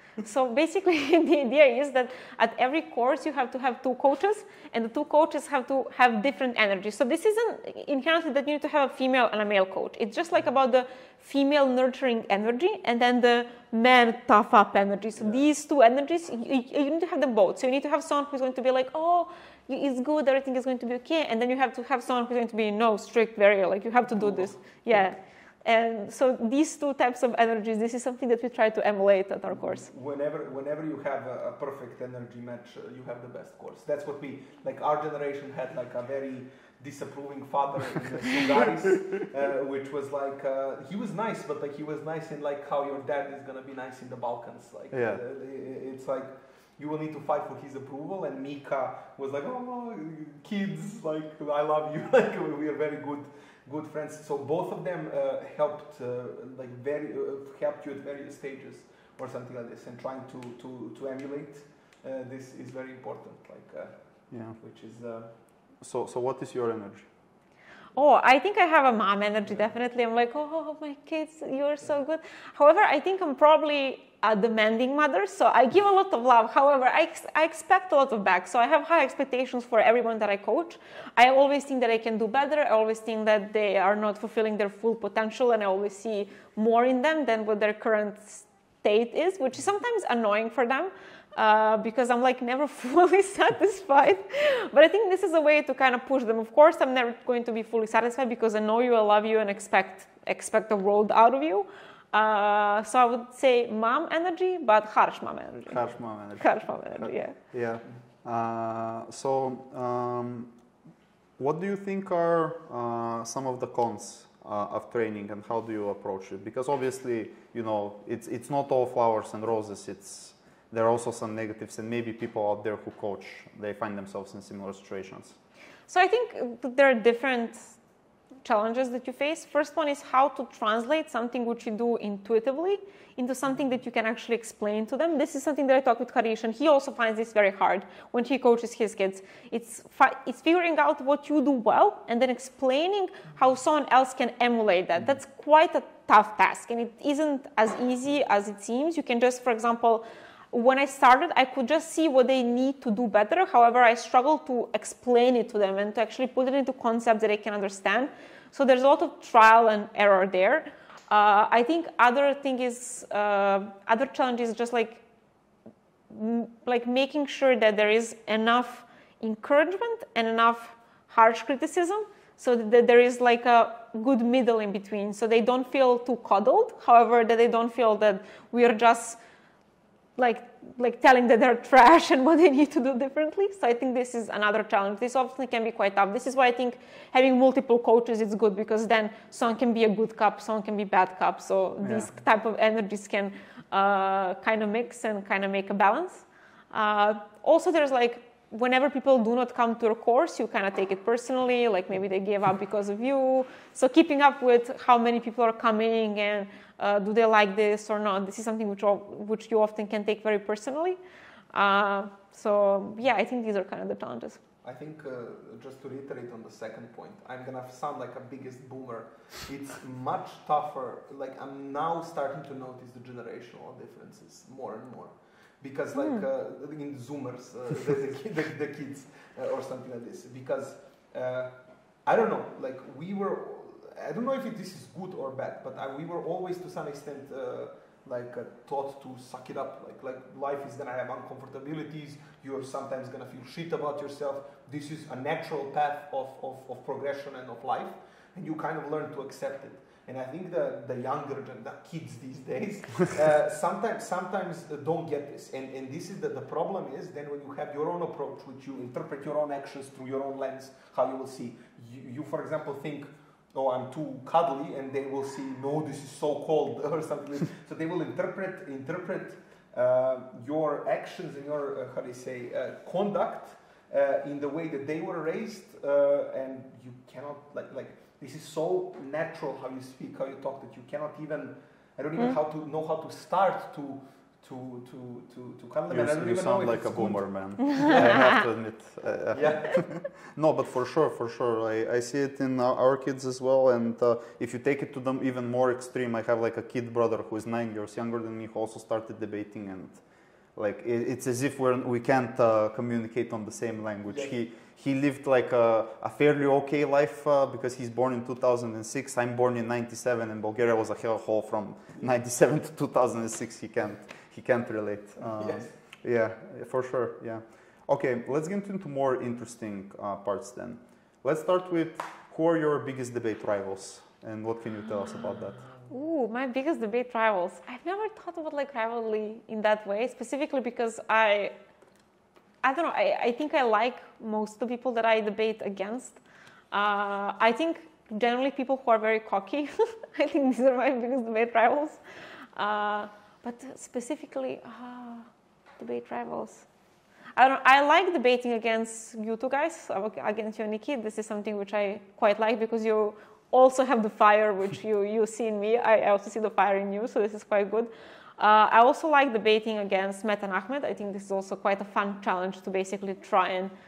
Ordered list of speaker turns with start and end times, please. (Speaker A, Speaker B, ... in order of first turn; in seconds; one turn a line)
Speaker A: 0.2-29.9
Speaker B: 24.1-25.0
Speaker B: 29.5-63.9
Speaker C: 44.9-45.2
Speaker C: 64.3-64.6
Speaker B: 64.6-65.3
Speaker C: 65.8-67.1
Speaker A: 68.0-105.8
Speaker C: 105.7-110.5
Speaker A: 106.4-107.4
Speaker C: 111.4-125.4
Speaker A: 125.9-127.8
Speaker A: 128.4-165.0
Speaker A: 166.1-179.2
Speaker A: 180.2-211.0
Speaker C: 191.8-192.1
Speaker A: 211.5-214.4
Speaker B: 214.6-288.3
Speaker A: 226.0-226.2
Speaker C: 285.9-300.0
Speaker A: 287.7-288.4
Speaker B: 289.3-289.9
Speaker C: 300.6-325.6
Speaker B: 304.1-304.4
Speaker B: 315.2-315.7
Speaker A: 325.9-331.5
Speaker A: 332.6-336.2
Speaker A: 336.7-342.0
Speaker A: 342.6-345.3
Speaker A: 345.8-346.7
Speaker A: 347.4-363.7